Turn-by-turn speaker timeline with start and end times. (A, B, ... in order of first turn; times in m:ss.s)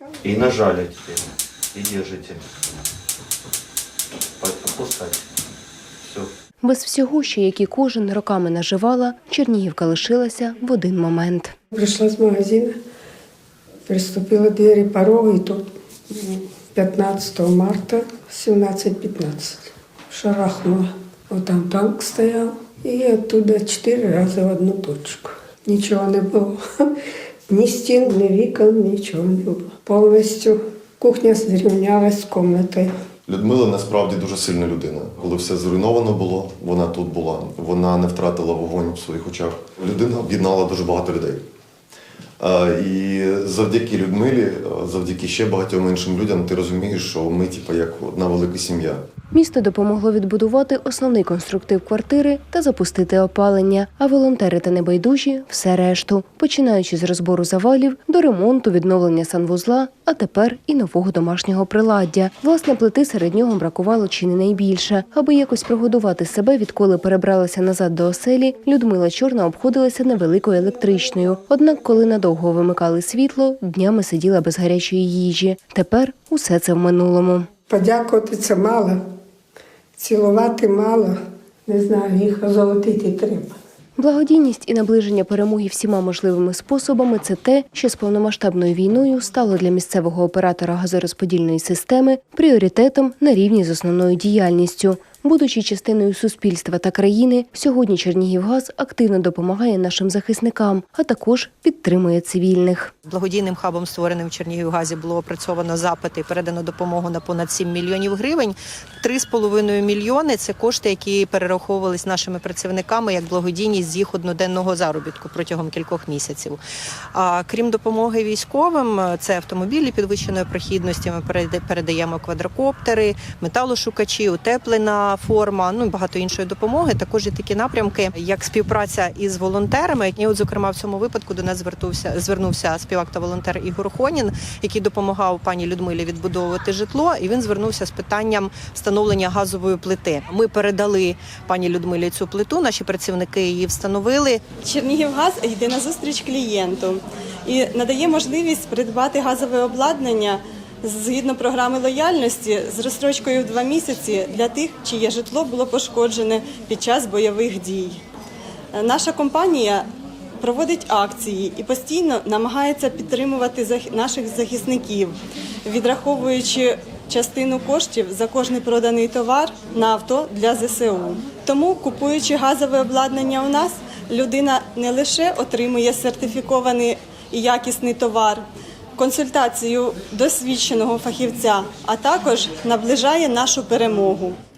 0:00.2-0:02.5 A
0:04.4-0:05.2 A
0:06.0-0:06.3 A
0:06.6-0:11.5 B
0:11.7-0:12.7 C
0:13.9-0:26.9 C
0:27.5-0:32.9 C
0:33.3-0:41.4 D
0:42.4-0:49.0 D
0:49.3-1:17.5 B
1:17.7-1:19.0 C
1:20.0-1:23.6 C
1:24.0-1:42.9 B
1:43.1-1:47.8 E
1:49.0-1:56.6 E
1:57.1-2:24.4 E
2:24.6-2:38.0 F
2:38.7-2:39.9 F
2:40.4-2:58.4 F
2:59.0-3:04.4 F